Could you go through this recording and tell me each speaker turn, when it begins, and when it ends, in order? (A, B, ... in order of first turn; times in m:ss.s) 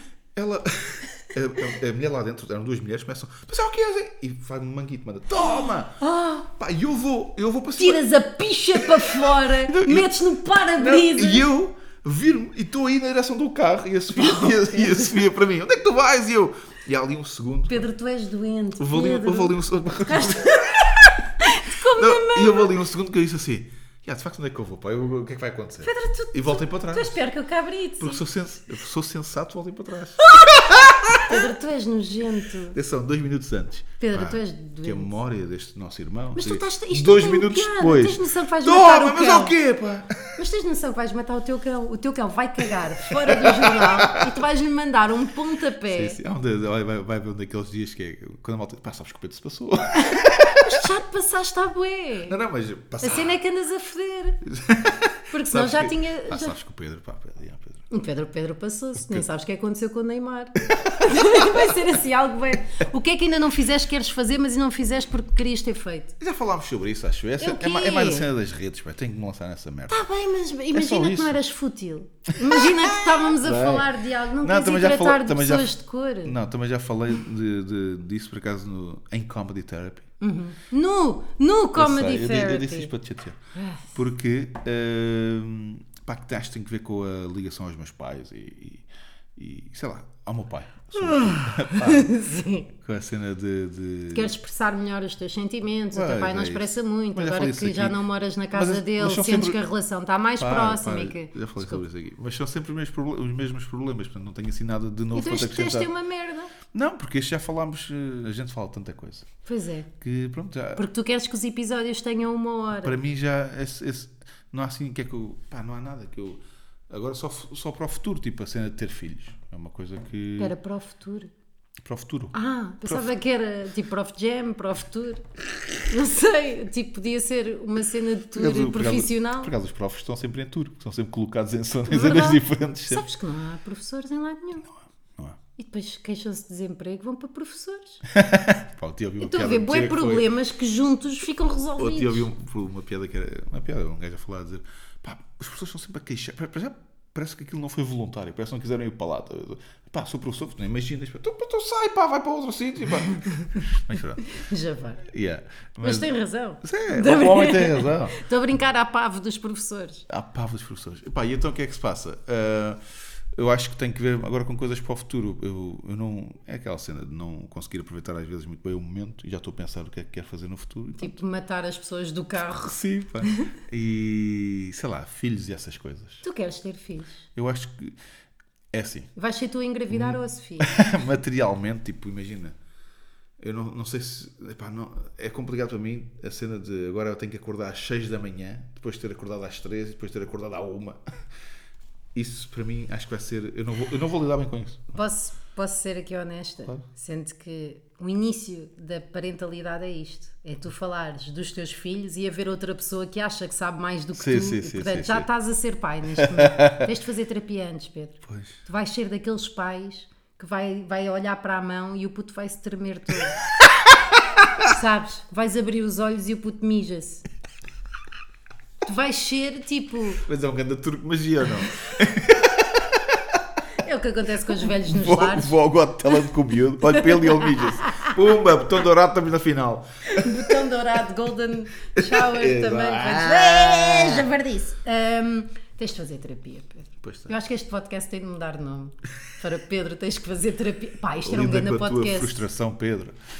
0:00.3-0:06.0 A
0:06.0-0:06.5 B
0:06.5-0:08.0 A
0:07.8-0:11.5 B
0:08.7-0:10.2 A
0:10.8-0:17.8 A
0:14.1-0:15.2 B
0:17.7-0:22.7 B
0:18.8-0:20.8 A
0:21.9-0:27.2 A
0:25.8-0:28.2 B
0:28.0-0:31.5 A
0:30.2-0:32.8 B
0:32.7-0:40.3 A
0:34.0-0:35.1 B
0:36.3-0:39.6 B
0:40.4-0:46.2 B
0:43.0-0:44.4 A
0:45.9-0:50.8 A
0:50.0-0:52.4 B
0:52.3-0:53.3 A
0:53.0-0:54.4 B
0:54.4-0:57.8 A
0:55.3-0:56.5 B
0:57.9-1:06.1 B
0:59.0-0:59.2 A
1:00.7-1:01.8 A
1:06.2-1:10.0 A
1:07.4-1:08.3 B
1:09.9-1:16.4 B
1:10.7-1:11.4 A
1:12.4-1:20.1 A
1:20.2-1:22.9 B
1:21.7-1:23.4 A
1:23.5-1:23.9 B
1:23.9-1:28.8 A
1:29.4-1:32.1 A
1:30.9-1:32.7 B
1:32.7-1:34.3 A
1:34.1-1:41.8 B
1:35.9-1:38.0 A
1:38.5-1:39.6 A
1:40.4-1:45.9 A
1:45.1-1:46.5 B
1:46.7-1:49.3 A
1:49.4-1:49.9 B
1:50.0-1:50.8 A
1:50.8-1:53.0 B
1:52.7-2:00.5 A
2:00.4-2:01.3 B
2:01.8-2:03.1 A
2:02.3-2:05.2 B
2:05.9-2:09.5 B
2:08.3-2:13.0 A
2:11.9-2:14.6 B
2:15.6-2:18.0 B
2:18.1-2:20.3 A
2:19.2-2:22.3 B
2:21.8-2:34.2 A
2:34.3-2:35.0 B
2:35.0-2:36.1 A
2:35.8-2:40.0 B
2:36.6-2:38.2 A
2:40.1-2:42.8 A
2:43.3-2:51.2 A
2:51.0-2:53.5 B
2:52.6-2:56.2 A
2:56.2-2:57.2 B
2:57.3-2:58.0 A
2:58.7-2:59.1 A
2:59.2-3:00.7 B
2:59.9-3:02.6 A
3:03.4-3:11.0 A
3:12.1-3:15.0 A
3:14.9-3:33.4 B
3:24.2-3:25.3 A
3:26.2-3:26.9 A
3:28.3-3:28.5 A
3:34.6-3:37.2 B
3:38.8-3:40.2 B
3:40.2-3:43.4 A
3:43.8-3:45.5 B
3:44.7-3:50.6 A
3:46.9-3:48.1 B
3:50.1-4:02.4 B
3:51.9-3:54.3 A
3:57.0-3:57.3 A
4:01.2-4:03.2 A